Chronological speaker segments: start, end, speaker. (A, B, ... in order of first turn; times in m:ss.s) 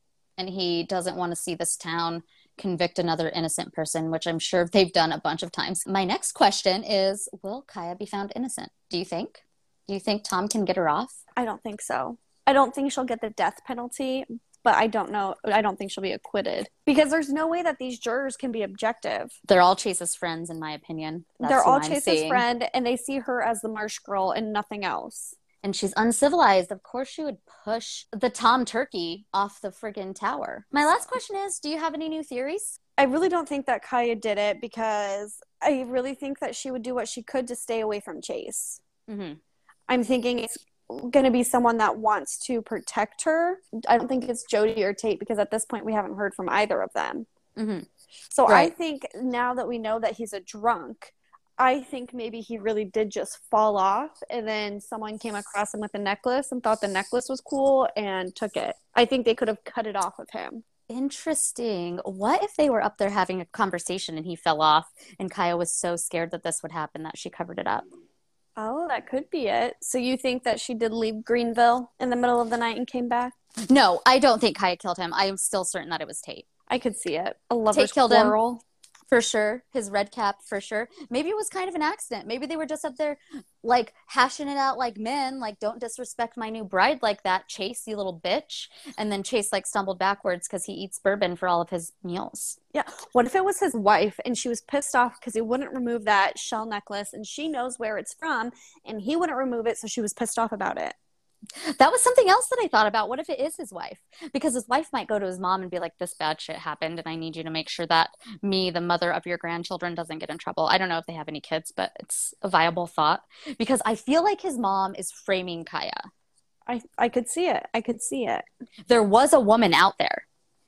0:00.4-0:11.2 A
0:11.4-0:19.4 B
0:19.5-0:22.4 A
0:21.4-0:25.4 B
0:25.6-0:32.8 A
0:33.0-0:38.8 B
0:39.1-0:39.4 A
0:39.9-0:47.3 B
0:47.6-0:47.9 A
0:48.3-1:00.6 B
0:48.5-0:48.7 A
1:00.9-1:07.9 A
1:08.6-1:13.3 B
1:13.7-1:16.4 A
1:16.7-1:18.6 B
1:17.7-1:18.4 A
1:19.1-1:32.6 A
1:32.7-1:41.0 B
1:41.6-1:56.1 A
1:56.7-1:58.5 B
1:58.9-2:00.3 A